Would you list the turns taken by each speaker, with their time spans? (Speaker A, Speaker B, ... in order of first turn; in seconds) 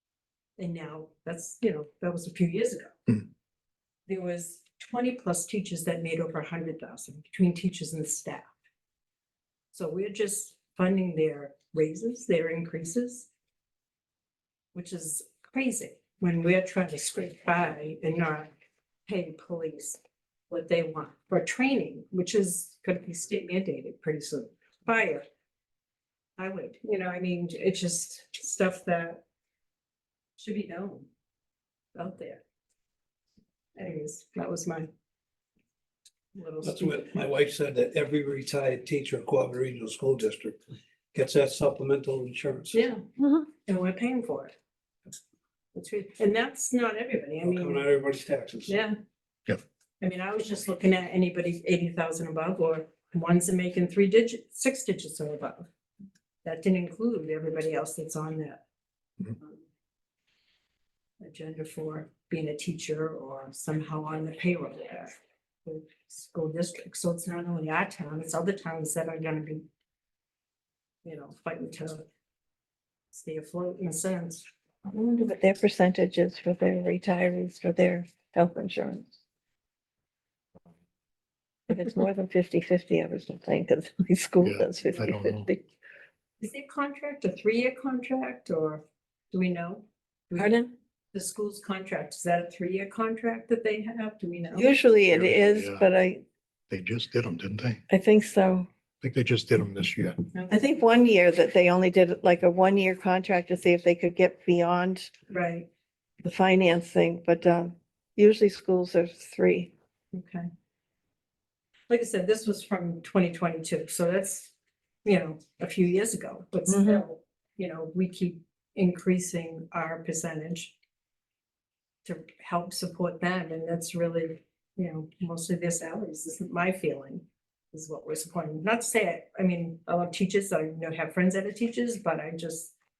Speaker A: 0.6-3.2, 4.0-8.5, 9.7-13.3, 14.7-18.5, 19.1-25.2, 26.4-29.2, 30.4-31.1, 31.9-32.4, 33.8-34.9, 36.3-37.1, 42.7-43.0, 43.6-44.5, 45.7-47.9, 48.7-48.9, 50.0-55.7, 56.4-58.6, 59.4-59.6, 61.2-65.1, 65.6-69.7, 71.0-72.0, 73.1-74.4, 86.4-90.5, 91.1-94.7, 100.3-100.8, 105.3-105.7, 110.1-110.5, 111.9-114.5, 115.0-120.7, 122.0-132.7
Speaker B: 36.6-40.6, 41.1-42.9, 47.4-48.8
Speaker C: 74.9-79.1, 81.7-85.6, 90.4-90.7, 94.5-96.2, 97.9-98.7, 100.5-105.1, 106.2-109.7, 116.7-117.0
Speaker D: 84.4-85.5, 95.1-95.8, 96.7-97.8, 99.0-100.2